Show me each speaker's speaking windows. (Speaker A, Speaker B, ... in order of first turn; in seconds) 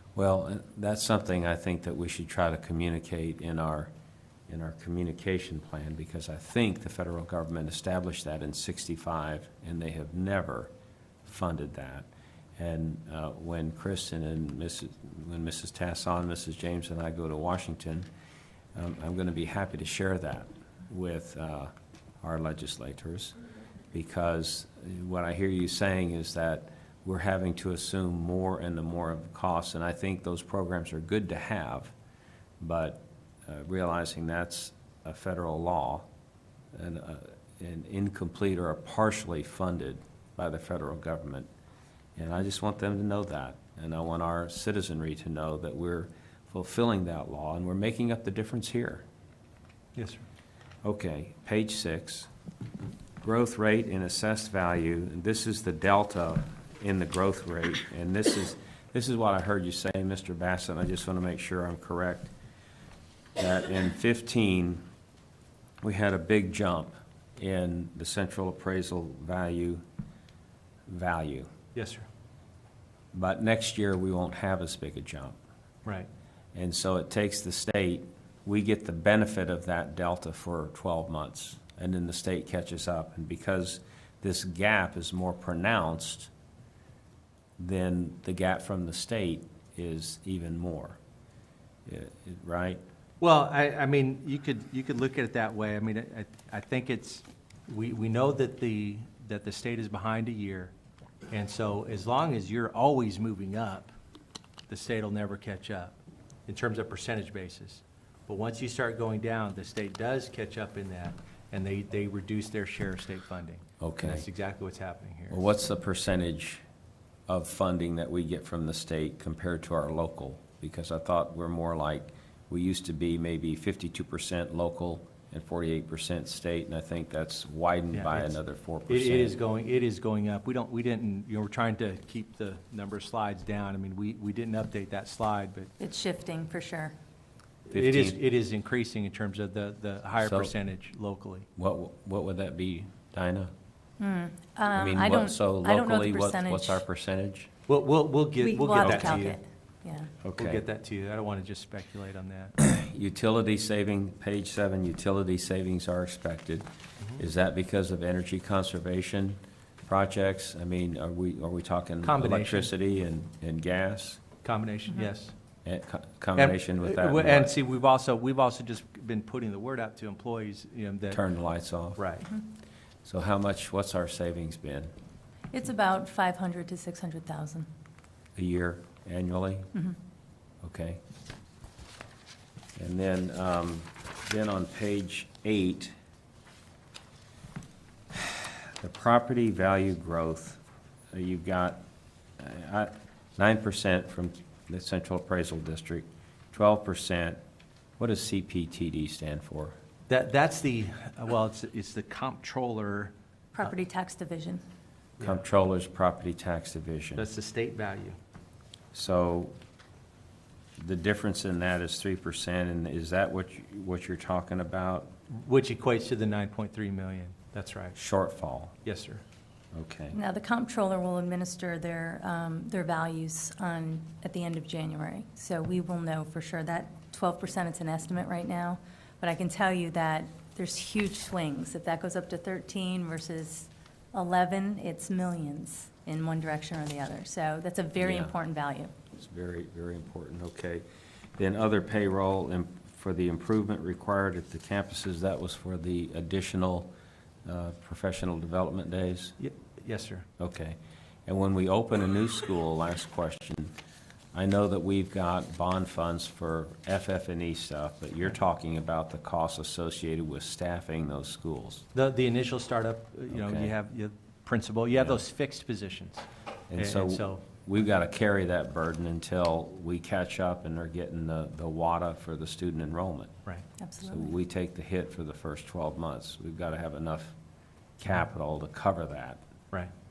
Speaker A: 0.1-3.9, 4.5-10.7, 11.2-18.1, 18.7-23.3, 23.9-31.9, 32.6-36.1, 36.7-41.5, 42.2-49.0, 50.8-52.3, 53.2-62.3, 63.4-64.8, 65.8-69.8, 70.9-71.5, 73.1-75.4, 76.5-86.3, 87.6-91.0, 91.9-92.8, 113.8-114.2, 115.3-116.6, 117.3-129.4, 137.7-138.2, 140.2-140.5, 141.6-143.5, 144.7-147.5, 148.8-149.2, 150.2-150.6, 152.6-156.7, 157.2-164.2, 165.7-167.5, 171.1-172.0, 173.1-174.9, 178.3-179.7, 180.6-181.0, 182.8-185.9, 188.1-190.6, 191.1-191.8, 192.4-197.4, 198.0-199.8, 205.2-207.3, 208.9-209.6, 210.8-215.1, 218.0-218.8, 219.7-220.2, 238.0-238.3, 239.1-240.8, 241.4-246.9, 247.4-249.3, 250.4-253.7, 254.3-261.8, 263.3-263.7, 266.7-273.3, 274.0-277.3, 278.0-279.4
Speaker B: 50.0-50.2, 71.8-72.1, 93.2-100.7, 101.3-103.9, 104.7-115.4, 127.9-128.4, 128.9-135.7, 137.7-141.5, 147.7-149.4, 150.4-152.6, 162.0-162.7, 164.4-165.3, 166.4-171.2, 172.0-172.3, 200.1-203.1, 207.2-208.2, 215.3-218.0, 218.8-219.2, 249.4-250.3, 261.9-267.4
Speaker C: 135.8-136.9, 144.0-146.8, 148.4-150.1, 175.5-177.7, 203.6-204.6, 220.1-238.9, 273.8-274.3